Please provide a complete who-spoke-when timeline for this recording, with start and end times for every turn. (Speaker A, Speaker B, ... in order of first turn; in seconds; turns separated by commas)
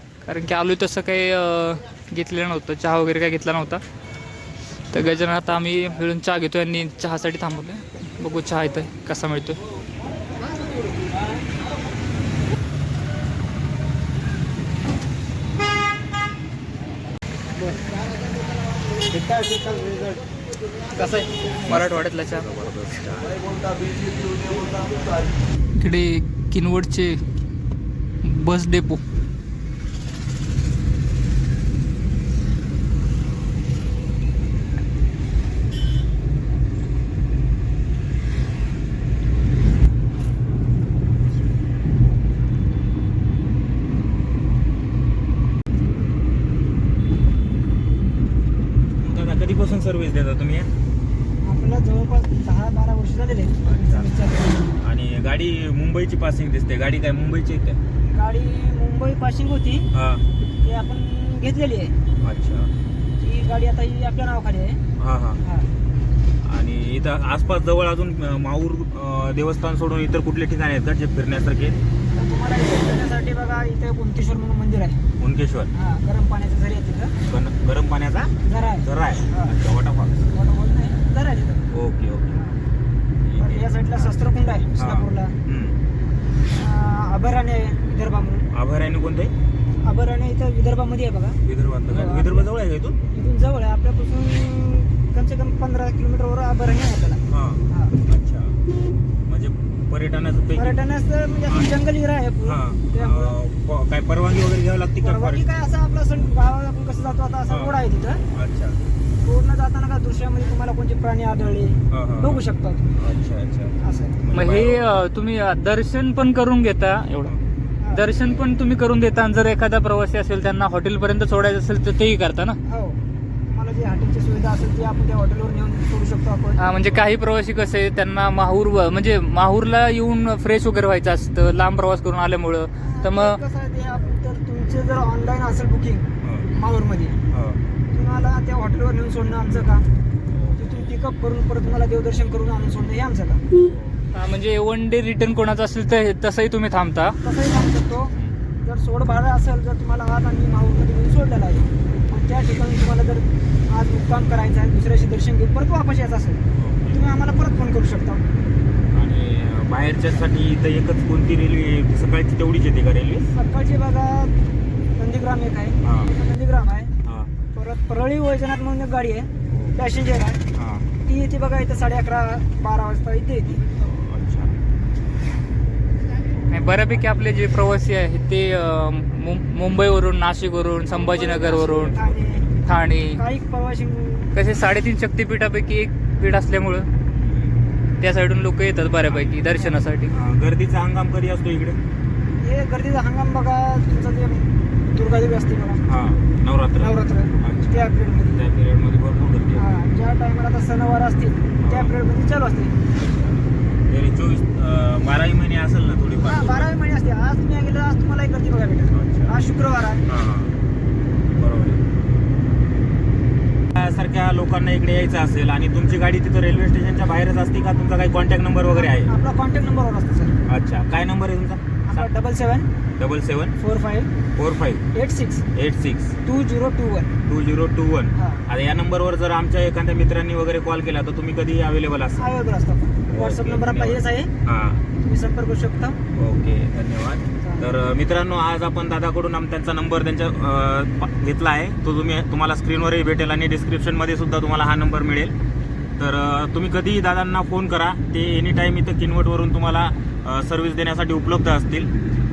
Speaker A: 0.2-3.8, Speaker A: 4.9-9.6, Speaker B: 17.6-20.0, Speaker B: 20.9-21.3, Speaker A: 21.6-22.5, Speaker C: 21.6-23.4, Speaker A: 25.7-27.2, Speaker A: 28.2-29.0, Speaker C: 49.0-50.7, Speaker B: 51.4-54.8, Speaker C: 53.6-54.1, Speaker C: 54.8-57.8, Speaker B: 58.1-59.9, Speaker C: 59.9-60.2, Speaker B: 60.6-61.9, Speaker C: 62.2-62.7, Speaker B: 63.2-64.8, Speaker C: 65.0-65.4, Speaker B: 65.4-65.7, Speaker C: 66.4-71.8, Speaker B: 72.1-75.0, Speaker C: 75.2-75.7, Speaker B: 75.7-77.1, Speaker C: 77.2-80.3, Speaker B: 78.4-79.5, Speaker B: 80.3-81.7, Speaker C: 81.7-82.4, Speaker B: 82.3-82.6, Speaker C: 83.2-84.1, Speaker B: 83.4-85.3, Speaker C: 84.7-85.8, Speaker B: 86.5-88.5, Speaker C: 88.5-89.3, Speaker B: 89.8-92.5, Speaker C: 91.4-93.0, Speaker B: 93.1-98.0, Speaker C: 97.3-98.6, Speaker C: 99.3-100.8, Speaker B: 100.5-103.4, Speaker C: 101.5-101.7, Speaker C: 102.4-105.5, Speaker B: 105.0-108.2, Speaker C: 107.5-107.8, Speaker C: 108.3-108.8, Speaker B: 109.2-112.9, Speaker C: 111.9-115.0, Speaker B: 113.8-114.2, Speaker A: 114.3-117.3, Speaker B: 117.8-118.1, Speaker A: 117.9-122.6, Speaker B: 122.7-123.0, Speaker B: 123.5-126.6, Speaker A: 126.6-133.4, Speaker B: 132.8-137.2, Speaker C: 136.2-136.5, Speaker C: 137.3-137.6, Speaker B: 137.9-139.8, Speaker C: 140.3-140.6, Speaker B: 140.6-143.4, Speaker C: 143.6-144.0, Speaker A: 144.1-147.2, Speaker B: 147.2-158.2, Speaker C: 156.5-157.0, Speaker C: 158.9-163.3, Speaker B: 163.3-164.3, Speaker B: 164.9-166.9, Speaker C: 165.8-166.1, Speaker C: 167.0-167.3, Speaker B: 167.5-170.4, Speaker C: 169.5-169.8, Speaker C: 170.5-170.9, Speaker B: 171.1-173.6, Speaker C: 173.7-174.6, Speaker A: 176.5-182.0, Speaker B: 181.0-182.5, Speaker A: 182.6-183.2, Speaker B: 183.1-184.3, Speaker A: 184.3-186.9, Speaker C: 187.1-187.6, Speaker A: 188.0-190.1, Speaker C: 189.1-189.4, Speaker C: 190.1-191.8, Speaker B: 192.4-195.8, Speaker C: 195.8-199.6, Speaker B: 196.8-198.4, Speaker B: 199.5-202.8, Speaker C: 201.6-201.9, Speaker C: 202.9-206.7, Speaker B: 206.2-210.1, Speaker C: 208.9-209.3, Speaker C: 210.1-210.6, Speaker C: 211.3-211.8, Speaker C: 213.7-219.1, Speaker B: 218.8-220.3, Speaker C: 220.4-222.1, Speaker B: 221.8-222.7, Speaker C: 223.0-223.6, Speaker B: 223.6-224.1, Speaker C: 224.3-224.8, Speaker B: 224.9-225.4, Speaker C: 225.5-226.1, Speaker B: 226.2-227.1, Speaker C: 227.2-232.3, Speaker B: 228.2-228.4, Speaker B: 232.2-234.3, Speaker C: 233.1-234.8, Speaker B: 235.0-236.0, Speaker C: 236.1-245.3, Speaker B: 237.4-237.7, Speaker C: 246.0-251.9